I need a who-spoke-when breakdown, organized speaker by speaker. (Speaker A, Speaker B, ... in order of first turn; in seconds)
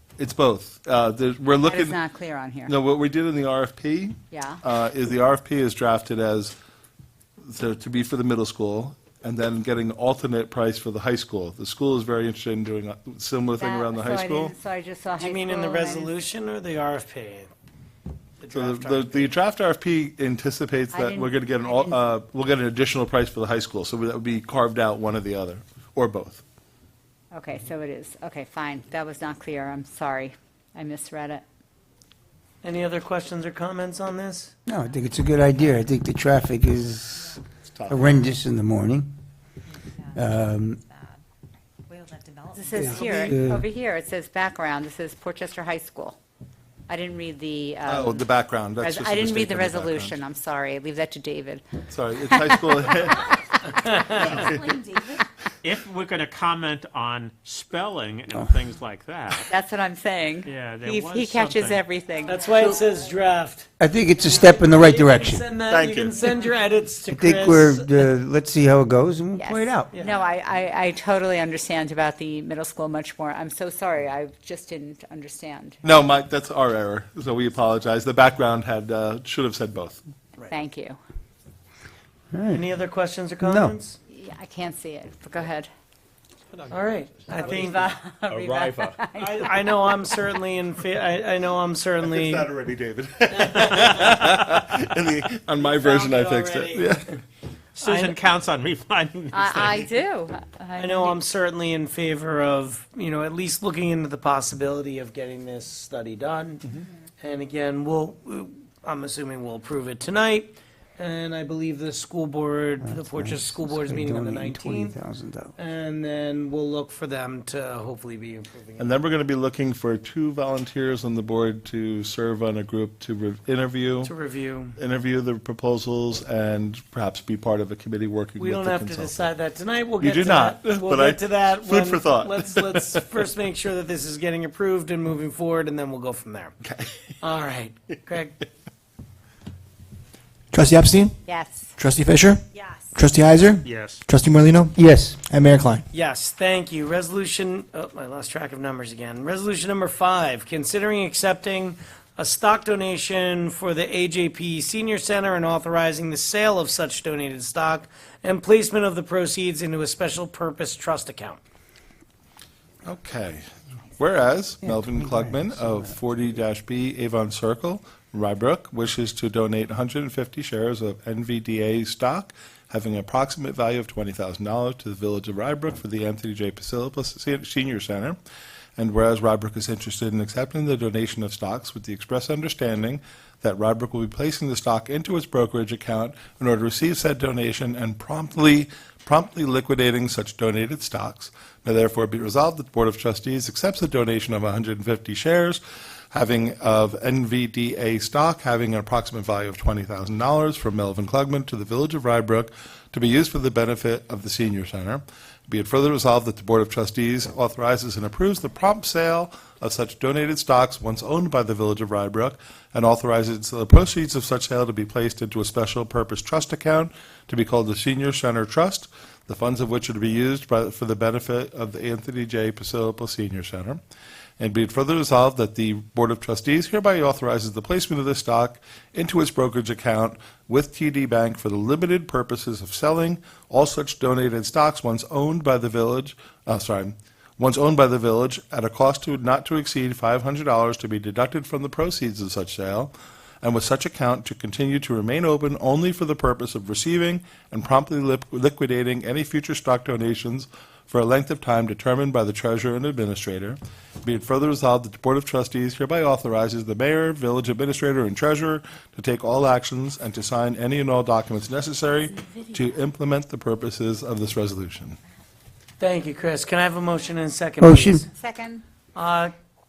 Speaker A: 0.2-2.0, 2.7-6.5, 7.4-14.6, 18.5-26.4, 37.6-38.2, 47.9-50.2, 51.9-53.4, 65.7-66.1, 75.8-80.0, 92.0-97.1, 118.8-124.1, 124.8-129.3, 130.0-133.0, 136.6-136.9, 162.8-178.2, 178.8-195.6, 196.1-223.8, 224.4-242.9, 243.4-265.0
Speaker B: 1.6-2.7, 4.3-4.6, 13.6-16.1, 20.9-22.0, 27.3-31.4, 42.5-46.2, 46.9-51.7, 52.3-53.0, 53.5-54.1, 59.5-62.5, 69.3-75.8, 80.5-81.0, 84.1-85.7, 87.5-89.5, 99.3-101.2, 141.3-141.7, 268.2-268.6
Speaker C: 15.2-17.5, 18.4-19.3, 32.6-34.5, 53.9-54.4, 62.3-68.1, 82.5-84.0, 86.7-87.9, 89.2-92.5, 93.4-93.9, 95.6-97.0, 97.8-98.2, 100.8-115.0, 115.6-118.9, 124.0-124.8, 128.4-136.5, 137.2-138.3, 145.9-161.4, 265.8-268.1, 268.9-269.3
Speaker D: 34.7-39.1, 40.1-40.8, 42.8-43.7, 63.8-65.5, 67.1-69.9, 82.3-82.7, 83.4-83.7, 112.8-115.5, 144.8-145.2, 164.6-166.0, 267.6-268.0
Speaker E: 39.9-41.2, 41.9-43.3, 54.5-55.0, 60.5-61.8, 62.6-63.0, 142.5-142.9
Speaker F: 55.6-59.5, 60.6-61.7, 88.3-88.8, 97.8-99.8, 143.7-144.1
Speaker G: 140.5-141.2, 141.8-142.4, 143.0-145.8